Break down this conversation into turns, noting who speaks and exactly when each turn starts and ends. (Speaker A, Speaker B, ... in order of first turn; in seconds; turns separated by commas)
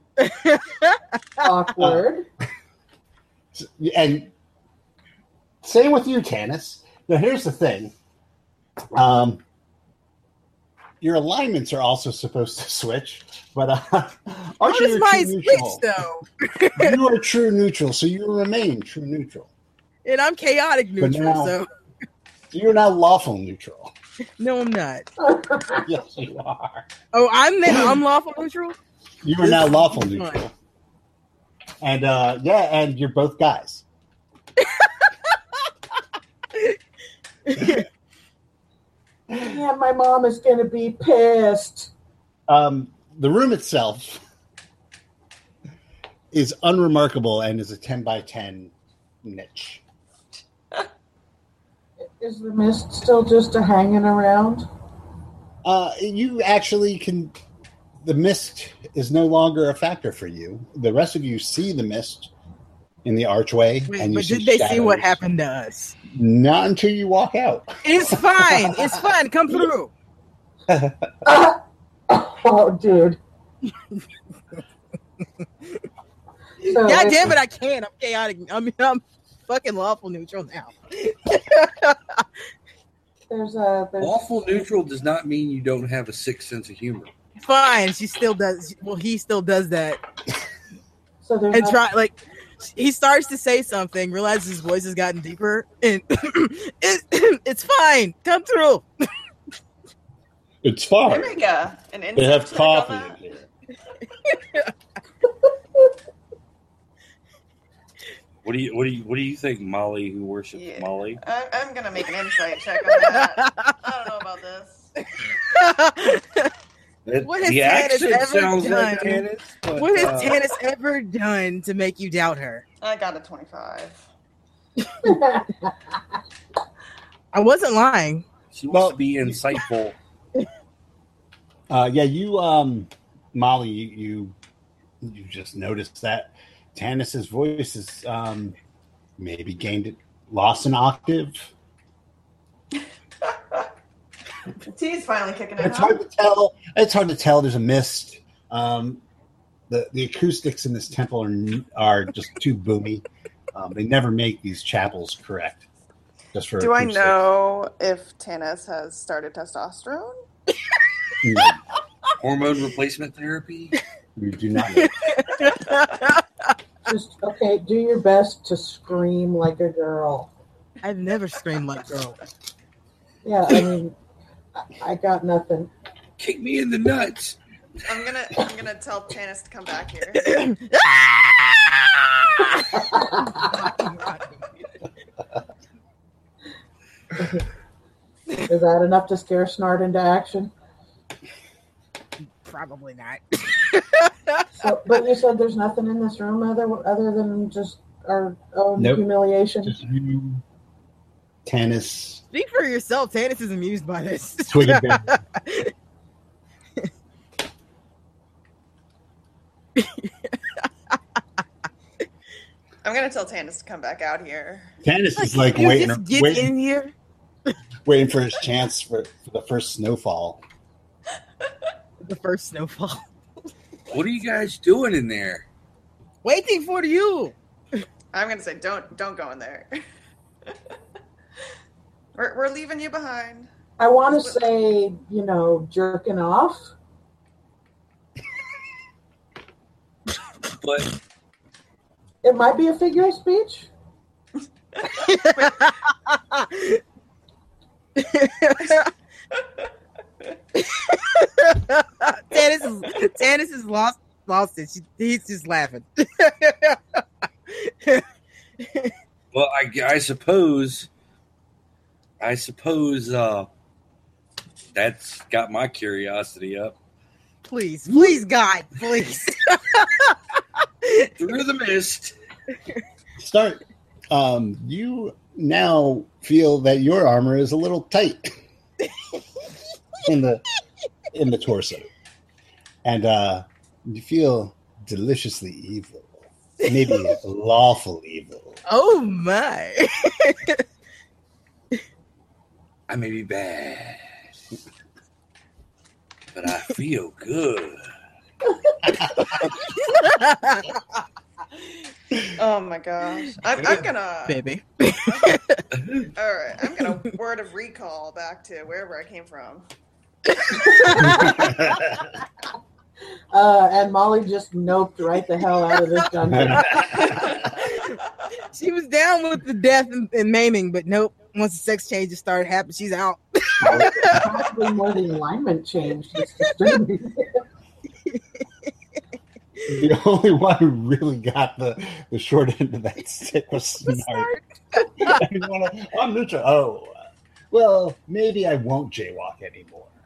Speaker A: 0.2-1.4, Speaker B: 1.4-2.2, Speaker C: 3.5-4.3, Speaker C: 5.6-7.9, Speaker C: 8.9-9.4, Speaker C: 11.0-15.9, Speaker A: 14.7-17.0, Speaker C: 16.8-19.5, Speaker A: 20.0-21.7, Speaker C: 21.0-21.5, Speaker C: 22.5-23.9, Speaker A: 24.4-25.1, Speaker B: 25.2-25.9, Speaker C: 25.8-26.9, Speaker A: 27.1-28.8, Speaker C: 29.2-30.5, Speaker A: 29.4-30.4, Speaker C: 31.8-33.8, Speaker A: 34.6-35.1, Speaker A: 37.5-37.8, Speaker B: 39.3-41.9, Speaker C: 42.5-44.2, Speaker C: 46.3-49.8, Speaker B: 52.0-54.6, Speaker C: 55.6-57.4, Speaker C: 58.0-62.3, Speaker C: 63.0-65.2, Speaker A: 63.9-66.0, Speaker C: 66.1-68.8, Speaker A: 67.8-69.9, Speaker C: 70.7-71.1, Speaker B: 71.2-73.2, Speaker B: 76.6-77.3, Speaker A: 76.7-82.2, Speaker B: 83.3-84.6, Speaker D: 84.0-87.1, Speaker A: 87.4-90.0, Speaker B: 91.2-91.8, Speaker A: 91.5-98.9, Speaker C: 100.6-101.4, Speaker E: 101.0-103.2, Speaker C: 102.1-103.5, Speaker A: 104.2-104.7, Speaker D: 108.4-111.2, Speaker E: 110.5-114.9, Speaker A: 113.0-113.8, Speaker A: 115.2-116.5, Speaker D: 117.0-120.4, Speaker A: 117.2-122.6, Speaker E: 122.8-124.0, Speaker A: 124.8-125.1, Speaker B: 125.0-125.7, Speaker A: 127.3-128.2, Speaker D: 128.5-129.9, Speaker C: 128.7-129.0, Speaker C: 131.7-134.3, Speaker C: 135.0-138.6, Speaker C: 139.2-141.5, Speaker E: 143.2-143.6, Speaker E: 144.6-146.0, Speaker C: 145.6-149.0, Speaker C: 149.7-155.7, Speaker C: 156.3-157.2, Speaker E: 156.6-160.2, Speaker C: 161.2-161.6, Speaker D: 162.2-163.8, Speaker C: 164.2-164.9, Speaker A: 164.7-166.5, Speaker B: 166.8-170.3, Speaker A: 170.8-172.2, Speaker B: 173.2-173.9, Speaker B: 174.7-175.7, Speaker D: 176.2-177.4, Speaker E: 177.9-180.4, Speaker A: 180.2-184.4, Speaker B: 182.9-183.4, Speaker B: 188.4-190.5, Speaker A: 192.4-194.5, Speaker B: 194.6-199.8, Speaker C: 198.8-199.1, Speaker C: 199.6-200.4, Speaker C: 201.4-202.2, Speaker A: 202.3-205.7, Speaker C: 204.5-205.1, Speaker A: 209.8-211.0, Speaker E: 212.8-214.7, Speaker C: 214.8-216.5, Speaker A: 215.2-216.9, Speaker C: 217.8-220.4, Speaker A: 222.0-223.0, Speaker D: 223.9-225.4, Speaker A: 226.2-227.8, Speaker E: 228.1-229.7, Speaker E: 232.2-233.5, Speaker B: 233.8-236.7, Speaker E: 234.1-234.4, Speaker D: 240.5-240.9, Speaker B: 242.2-243.7, Speaker E: 244.8-245.5, Speaker A: 244.9-246.8, Speaker A: 247.9-248.9, Speaker A: 250.6-258.0, Speaker A: 258.6-258.9, Speaker D: 259.3-260.9, Speaker D: 262.2-263.5, Speaker D: 264.7-266.8, Speaker A: 267.5-270.2, Speaker D: 267.9-268.2, Speaker A: 270.8-271.1, Speaker D: 271.1-272.1, Speaker C: 273.2-278.4, Speaker C: 280.0-280.4, Speaker C: 281.1-281.9, Speaker C: 282.8-288.6, Speaker A: 286.7-287.0, Speaker A: 288.7-290.6, Speaker D: 292.9-294.0, Speaker D: 296.3-297.9, Speaker A: 299.8-301.0, Speaker E: 302.1-304.4, Speaker D: 303.5-303.8, Speaker A: 304.3-305.6, Speaker E: 305.1-305.4, Speaker D: 305.7-306.1, Speaker E: 306.1-309.6, Speaker A: 310.3-311.4, Speaker B: 310.6-311.5, Speaker C: 311.0-312.1, Speaker B: 313.3-317.0, Speaker C: 316.3-317.4, Speaker A: 316.6-318.0, Speaker A: 318.5-324.5, Speaker C: 323.6-324.2, Speaker B: 323.7-327.4, Speaker A: 326.4-326.7, Speaker C: 329.7-334.3, Speaker A: 334.0-335.2, Speaker C: 335.0-336.9, Speaker C: 337.5-339.9